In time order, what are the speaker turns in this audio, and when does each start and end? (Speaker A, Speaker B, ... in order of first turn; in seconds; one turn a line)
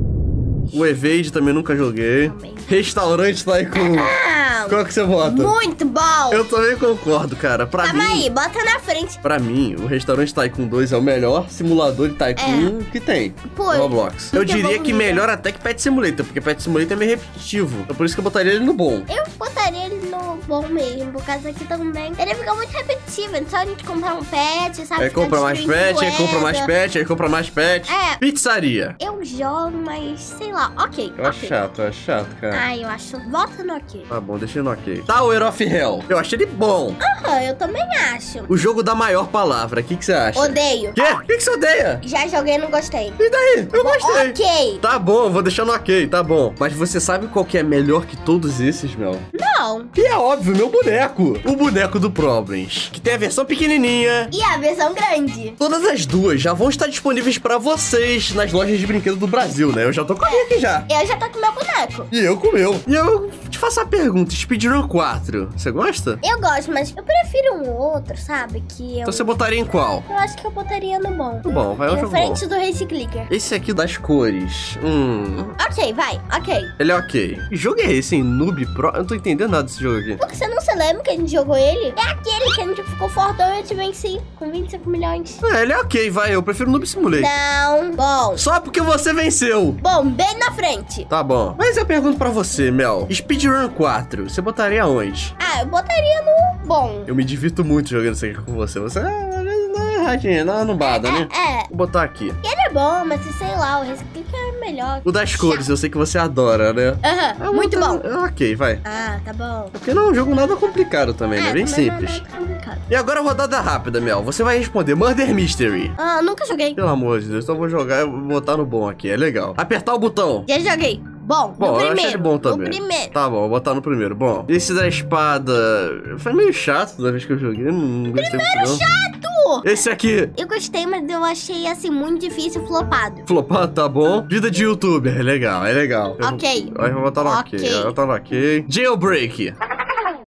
Speaker A: 0.7-4.1
Speaker B: 2.2-2.8
Speaker B: 3.7-6.4
Speaker A: 4.7-5.5
Speaker A: 6.3-8.3
Speaker B: 7.8-9.2
Speaker A: 9.2-19.1
Speaker B: 12.4-12.7
Speaker B: 13.5-15.2
Speaker B: 19.1-26.7
Speaker A: 25.0-29.0
Speaker B: 27.9-28.2
Speaker B: 29.0-31.6
Speaker A: 31.2-32.6
Speaker B: 32.5-34.1
Speaker A: 34.1-37.0
Speaker B: 37.0-38.5
Speaker A: 38.5-42.0
Speaker B: 40.4-41.0
Speaker B: 42.0-43.2
Speaker A: 43.2-49.2
Speaker B: 43.7-44.8
Speaker B: 49.3-49.9
Speaker A: 49.9-54.3
Speaker B: 54.3-55.6
Speaker A: 55.6-60.9
Speaker B: 60.2-62.1
Speaker A: 62.1-66.2
Speaker B: 66.2-69.3
Speaker A: 69.0-70.0
Speaker B: 70.1-73.3
Speaker A: 71.5-72.4
Speaker A: 73.3-75.5
Speaker B: 75.6-76.7
Speaker A: 76.8-80.2
Speaker B: 80.2-85.4
Speaker A: 85.4-87.3
Speaker B: 87.1-88.4
Speaker A: 88.4-89.8
Speaker B: 89.8-91.1
Speaker A: 91.1-95.3
Speaker B: 95.4-97.1
Speaker A: 97.1-102.4
Speaker B: 100.8-101.7
Speaker B: 102.4-105.7
Speaker A: 105.0-108.8
Speaker B: 107.0-108.0
Speaker B: 108.8-109.8
Speaker A: 109.8-112.2
Speaker B: 111.4-112.8
Speaker A: 112.9-115.9
Speaker B: 116.0-116.8
Speaker A: 116.8-120.5
Speaker B: 120.5-123.1
Speaker A: 121.6-128.8
Speaker B: 128.2-129.8
Speaker A: 129.6-130.3
Speaker B: 130.3-133.2
Speaker A: 133.2-139.6
Speaker B: 136.2-137.9